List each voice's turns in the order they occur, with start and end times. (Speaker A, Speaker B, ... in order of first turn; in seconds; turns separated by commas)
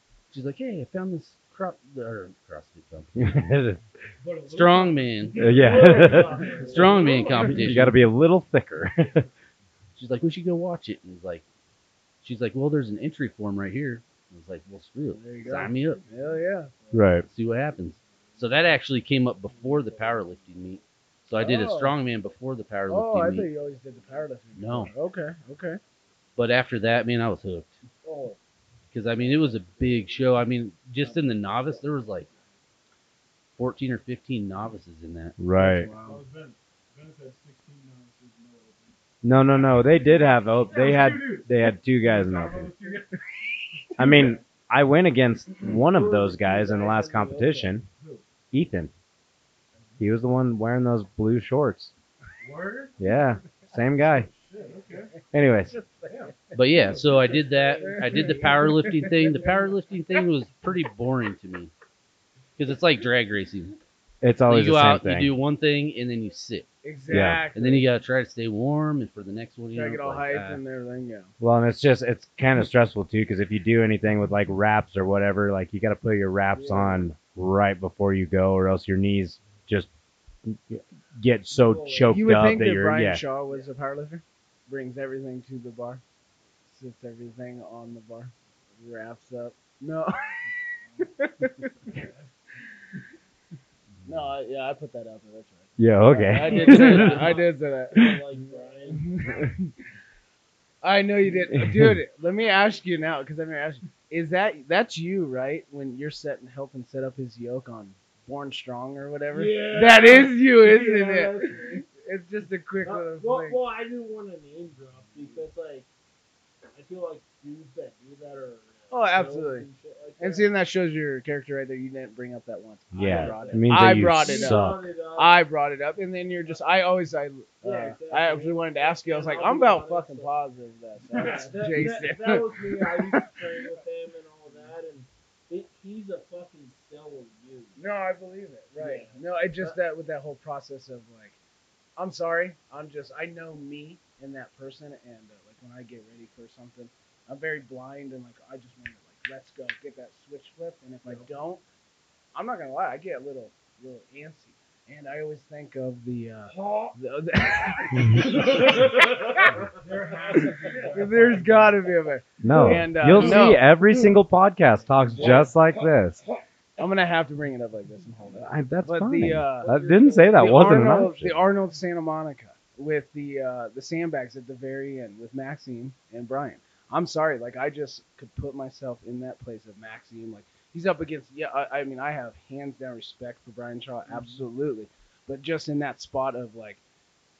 Speaker A: 0.3-3.3, Speaker B: 3.1-3.8, Speaker C: 4.2-7.4, Speaker A: 4.4-5.5, Speaker D: 4.8-7.5, Speaker B: 5.4-6.5, Speaker A: 6.6-8.0, Speaker B: 7.4-9.2, Speaker A: 9.9-11.4, Speaker A: 12.2-16.0, Speaker E: 15.1-16.7, Speaker B: 16.9-17.2, Speaker A: 17.2-23.5, Speaker E: 21.4-22.0, Speaker E: 22.9-25.8, Speaker A: 24.6-24.9, Speaker A: 26.4-27.8, Speaker E: 28.0-28.4, Speaker A: 28.9-32.3, Speaker A: 33.6-35.4, Speaker B: 35.4-35.9, Speaker E: 35.5-36.2, Speaker C: 36.0-39.0, Speaker B: 39.2-42.7, Speaker C: 39.6-39.9, Speaker C: 40.5-44.4, Speaker B: 44.0-47.9, Speaker D: 45.9-47.7, Speaker B: 48.5-48.9, Speaker B: 50.0-51.9, Speaker C: 52.4-53.0, Speaker B: 53.0-54.3, Speaker C: 54.2-55.1, Speaker B: 55.3-55.7, Speaker E: 55.8-56.1, Speaker C: 56.1-57.2, Speaker A: 56.5-61.7, Speaker E: 57.8-59.3, Speaker A: 62.6-63.8, Speaker B: 64.2-65.3, Speaker A: 64.5-66.7, Speaker E: 66.8-67.8, Speaker B: 67.1-67.4, Speaker A: 67.5-70.6, Speaker E: 69.7-71.3, Speaker B: 71.4-79.9, Speaker E: 76.5-77.0, Speaker B: 80.4-83.2, Speaker D: 81.5-82.6, Speaker E: 82.1-86.0, Speaker E: 86.7-90.3, Speaker E: 91.0-92.0, Speaker E: 94.0-98.3, Speaker B: 95.8-97.2, Speaker D: 96.4-99.2, Speaker B: 98.0-98.2, Speaker E: 98.9-99.7, Speaker E: 100.8-113.6, Speaker B: 101.5-102.0, Speaker D: 109.3-111.9, Speaker D: 112.8-115.9, Speaker E: 115.2-115.4, Speaker D: 116.7-120.5, Speaker E: 118.9-119.7, Speaker E: 120.2-133.7, Speaker B: 122.9-124.9, Speaker D: 122.9-125.4, Speaker D: 127.6-130.3, Speaker D: 131.1-137.8, Speaker C: 131.2-131.6, Speaker E: 137.8-141.4, Speaker D: 138.8-139.8, Speaker E: 142.0-151.6, Speaker E: 152.3-159.6, Speaker C: 158.6-158.9, Speaker D: 159.8-161.8, Speaker C: 159.8-161.4, Speaker E: 160.4-163.8, Speaker B: 162.4-166.2, Speaker C: 163.1-163.5, Speaker E: 166.8-186.8, Speaker B: 168.4-171.4